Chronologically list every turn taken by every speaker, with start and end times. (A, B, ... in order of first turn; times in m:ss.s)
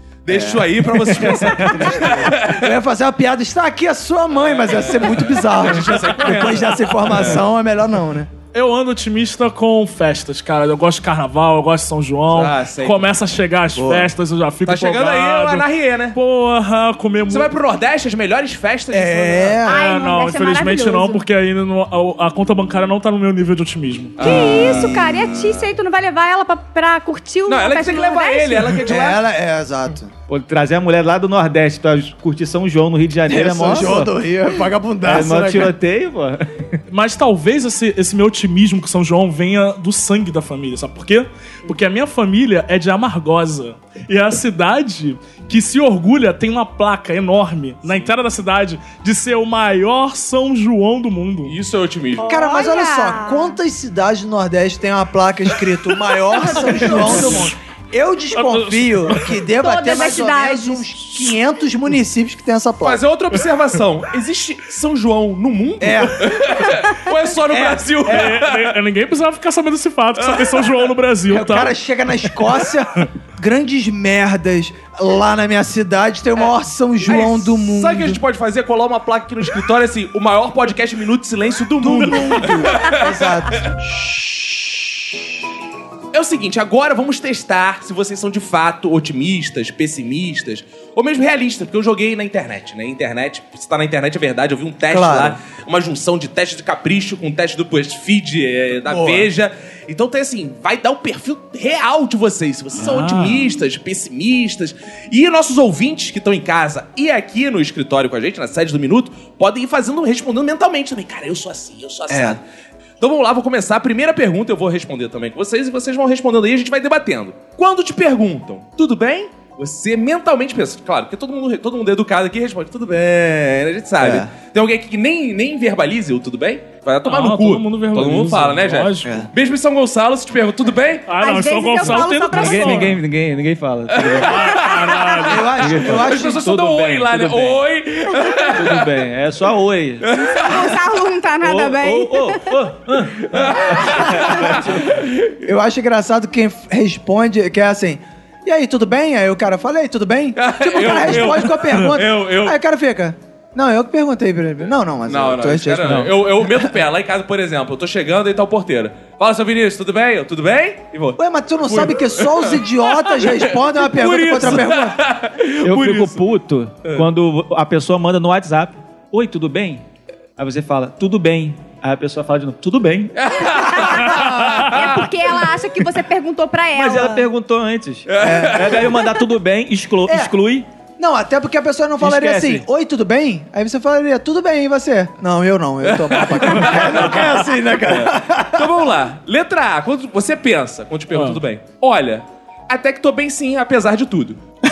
0:00.2-0:02.7 A
0:00.3-0:08.3 B
0:04.3-0:07.4 A
0:08.5-0:17.5 C
0:12.3-0:13.1 A
0:13.8-0:14.1 B
0:14.7-0:16.2 A
0:17.3-0:19.6 A
0:18.9-0:19.8 B
0:19.7-0:21.2 D
0:19.7-0:24.2 C
0:24.2-0:25.0 A
0:24.2-0:25.6 B
0:24.2-0:28.8 D
0:27.5-0:29.2 A
0:28.8-0:30.1 B
0:30.3-0:34.1 E
0:33.3-0:35.7 B
0:35.0-0:36.7 E
0:36.9-0:51.6 C
0:51.5-0:52.3 A
0:52.2-0:53.6 D
0:52.3-1:03.0 B
0:56.4-0:57.0 D
0:56.9-0:57.5 C
0:58.3-0:59.2 C
0:59.6-1:00.9 D
1:02.8-1:08.8 A
1:05.8-1:06.6 B
1:07.5-1:08.4 B
1:08.1-1:11.7 C
1:10.2-1:10.7 A
1:11.3-1:18.2 B
1:17.0-1:23.0 A
1:21.8-1:24.2 B
1:26.1-1:52.4 A
1:34.9-1:35.4 B
1:38.9-1:39.3 B
1:42.9-1:43.3 C
1:52.1-1:52.4 B
1:53.0-2:11.1 A
2:04.0-2:04.3 B
2:07.0-2:09.1 C
2:11.1-2:12.9 C
2:11.2-2:12.9 D
2:11.9-2:14.6 E
2:13.9-2:18.9 A
2:14.2-2:15.7 C
2:15.3-2:16.4 B
2:15.6-2:17.6 E
2:18.5-2:20.1 E
2:20.1-2:20.5 A
2:20.4-2:22.6 D
2:21.4-2:24.8 E
2:23.3-2:24.7 A
2:25.4-2:36.7 B
2:30.4-2:32.6 A
2:35.1-2:46.2 A
2:35.8-2:36.2 E
2:41.2-2:45.0 B
2:45.6-2:49.8 E
2:50.4-2:53.2 E
2:53.2-2:54.8 A
2:53.7-2:57.3 D
2:54.1-2:54.6 B
2:56.7-3:00.7 E
2:58.1-2:59.0 A
2:58.2-2:58.8 B
3:01.0-3:08.7 B
3:02.0-3:02.7 E
3:05.8-3:14.4 A
3:11.1-3:11.4 C